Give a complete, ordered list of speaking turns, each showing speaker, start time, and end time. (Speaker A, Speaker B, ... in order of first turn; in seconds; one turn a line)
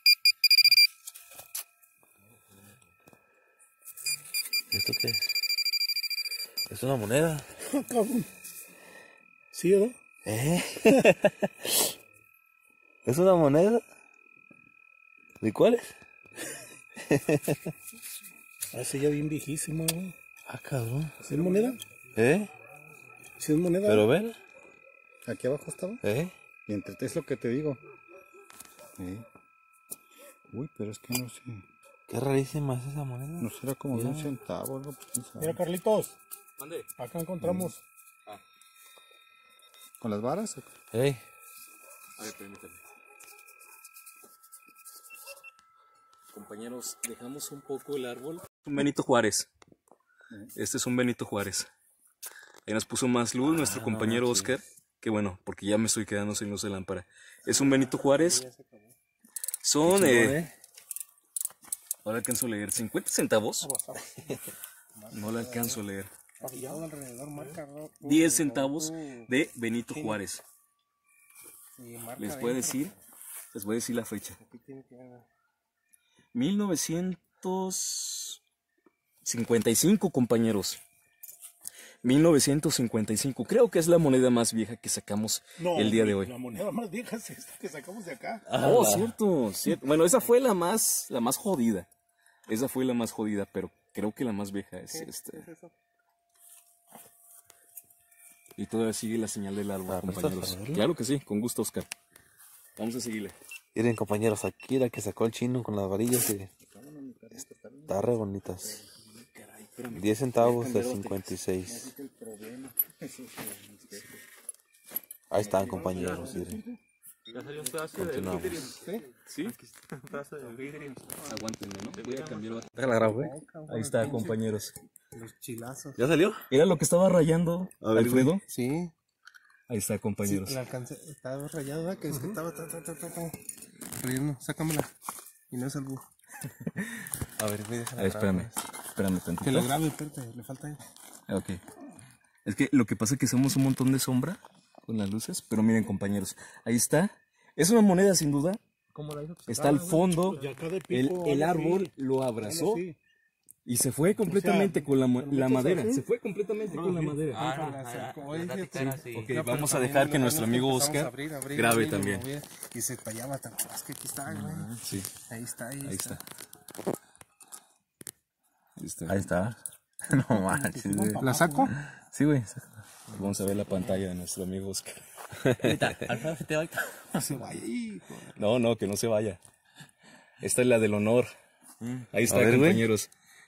Speaker A: 4.7-5.3
Speaker A: 6.7-7.5
Speaker B: 7.7-8.3
Speaker B: 9.5-10.0
Speaker A: 10.2-11.9
Speaker A: 13.0-13.8
Speaker A: 15.4-15.9
Speaker A: 17.0-17.7
Speaker B: 18.7-20.1
Speaker A: 20.5-21.2
Speaker B: 21.2-21.8
Speaker C: 21.2-21.5
Speaker A: 22.1-22.5
Speaker B: 23.4-24.1
Speaker A: 23.8-24.4
Speaker D: 25.2-26.0
Speaker A: 26.0-26.3
Speaker D: 26.7-27.8
Speaker D: 29.0-29.2
Speaker D: 30.5-31.6
Speaker A: 32.1-34.4
Speaker D: 33.4-35.6
Speaker B: 35.4-36.1
Speaker C: 36.6-36.9
Speaker B: 37.0-37.8
Speaker A: 37.4-37.7
Speaker D: 40.0-40.7
Speaker A: 40.9-41.2
Speaker C: 42.2-42.8
Speaker C: 46.3-49.5
Speaker C: 50.5-51.7
Speaker C: 52.6-58.4
Speaker A: 53.4-54.6
Speaker E: 57.4-59.0
Speaker C: 59.6-60.4
Speaker A: 59.8-60.5
Speaker C: 62.0-63.7
Speaker B: 63.6-64.4
Speaker E: 64.9-65.8
Speaker C: 65.1-66.1
Speaker E: 66.4-69.3
Speaker B: 66.4-67.6
Speaker C: 68.0-70.4
Speaker E: 69.9-70.2
Speaker E: 71.8-72.9
Speaker C: 72.2-72.9
Speaker C: 73.5-74.4
Speaker E: 74.4-75.3
Speaker C: 76.3-78.4
Speaker C: 79.2-80.8
Speaker C: 82.0-86.3
Speaker B: 85.6-88.5
Speaker A: 88.5-89.2
Speaker C: 88.5-91.9
Speaker C: 92.5-95.4
Speaker E: 94.9-95.7
Speaker C: 98.6-101.9
Speaker A: 99.9-100.9
Speaker C: 102.8-103.3
Speaker A: 103.7-106.5
Speaker D: 106.7-107.9
Speaker A: 107.9-108.8
Speaker C: 109.0-114.1
Speaker A: 109.9-111.9
Speaker A: 115.3-116.6
Speaker E: 115.4-116.6
Speaker F: 115.8-116.4
Speaker F: 117.3-121.2
Speaker A: 117.9-118.7
Speaker C: 118.0-118.5
Speaker E: 118.7-119.1
Speaker C: 119.2-119.5
Speaker C: 121.2-122.7
Speaker F: 121.9-122.7
Speaker A: 122.7-123.3
Speaker E: 122.8-124.5
Speaker C: 123.7-124.7
Speaker E: 125.1-126.0
Speaker A: 126.0-126.5
Speaker C: 126.5-128.4
Speaker A: 127.8-128.3
Speaker E: 128.5-128.9
Speaker C: 129.7-130.6
Speaker E: 130.2-133.4
Speaker E: 133.9-134.9
Speaker E: 135.5-136.1
Speaker A: 137.4-138.6
Speaker C: 138.0-139.7
Speaker E: 139.4-140.8
Speaker C: 141.3-141.6
Speaker C: 142.4-148.6
Speaker F: 148.9-150.6
Speaker C: 149.5-150.4
Speaker B: 150.3-153.0
Speaker C: 150.9-152.8
Speaker C: 153.7-157.8
Speaker B: 154.2-155.8
Speaker E: 155.2-156.0
Speaker E: 156.6-166.2
Speaker B: 156.8-157.2
Speaker F: 157.3-159.3
Speaker C: 158.7-162.2
Speaker C: 164.8-165.1
Speaker C: 165.8-166.2
Speaker C: 168.8-169.2
Speaker A: 169.1-172.7
Speaker E: 170.2-171.7
Speaker B: 171.0-171.7
Speaker C: 173.1-175.0
Speaker A: 175.4-175.9
Speaker F: 175.6-177.5
Speaker E: 177.3-178.5
Speaker C: 178.3-179.4
Speaker C: 180.4-181.3
Speaker F: 181.8-182.1
Speaker C: 182.1-183.1
Speaker A: 182.3-182.8